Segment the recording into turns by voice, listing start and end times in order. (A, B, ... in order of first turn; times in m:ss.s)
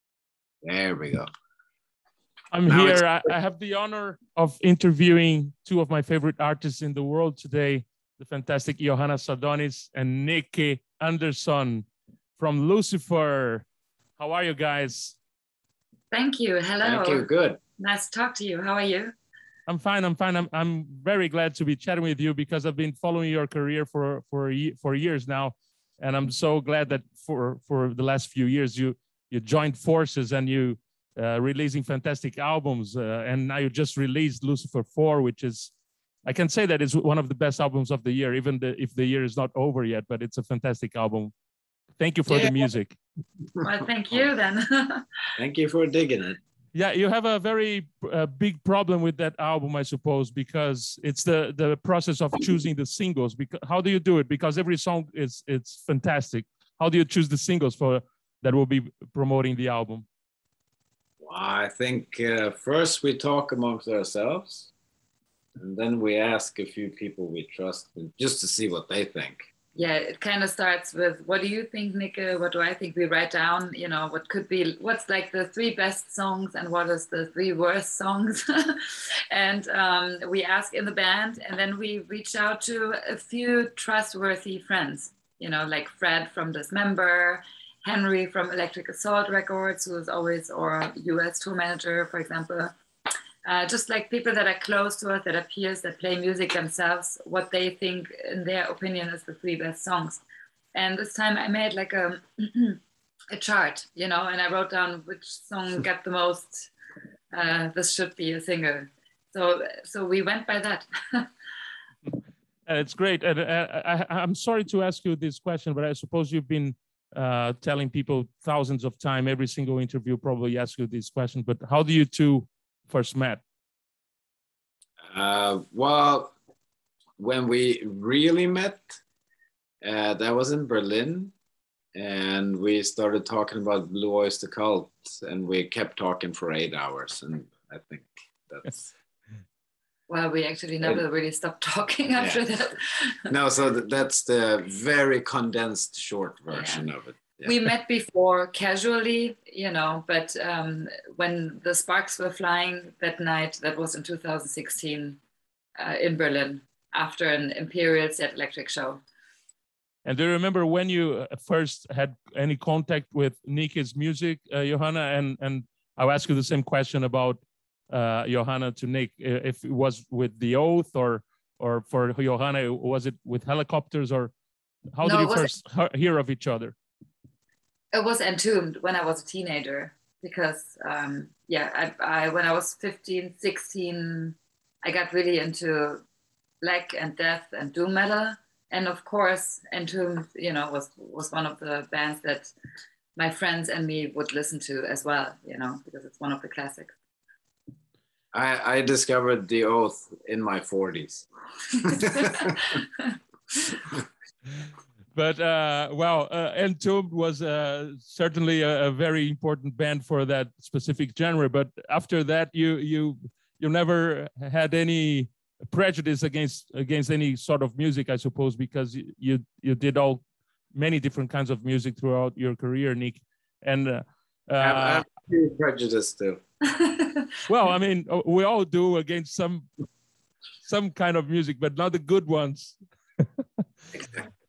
0:00.6-0:01.3 A
0:02.5-0:11.8 B
0:02.7-0:03.0 A
0:12.4-0:13.6 B
0:14.2-0:15.2 B
0:16.1-0:17.3 C
0:16.8-0:17.6 A
0:17.8-0:19.1 C
0:19.7-0:35.7 B
0:36.2-0:41.3 B
0:42.0-0:43.0 B
0:42.3-0:42.7 A
0:43.6-0:44.2 A
0:43.6-0:45.0 C
0:45.4-0:46.4 A
0:46.7-1:00.0 B
1:01.2-1:04.7 A
1:05.6-1:09.5 A
1:09.7-1:32.7 C
1:33.4-1:40.2 C
1:40.7-1:42.8 C
1:43.3-1:46.7 C
1:47.3-1:51.3 C
1:52.6-2:03.4 B
2:05.1-2:06.3 A
2:07.2-2:09.0 A
2:09.8-2:11.3 A
2:11.9-2:18.9 A
2:20.1-2:23.2 C
2:22.2-2:22.4 A
2:23.3-2:27.7 A
2:26.5-2:26.9 C
2:27.4-2:35.2 C
2:35.8-2:39.0 C
2:40.0-2:54.3 B
2:55.0-2:56.7 B
2:55.0-2:55.5 C
2:57.9-3:06.0 C
3:06.6-3:12.5 C
3:13.2-3:16.9 C
3:18.3-3:21.2 A
3:21.8-3:22.8 A
3:21.8-3:23.2 C
3:25.1-3:40.2 B
3:40.7-3:45.0 B
3:44.6-3:46.4 A
3:46.7-3:47.3 C
3:47.4-3:49.7 B
3:50.6-3:53.4 B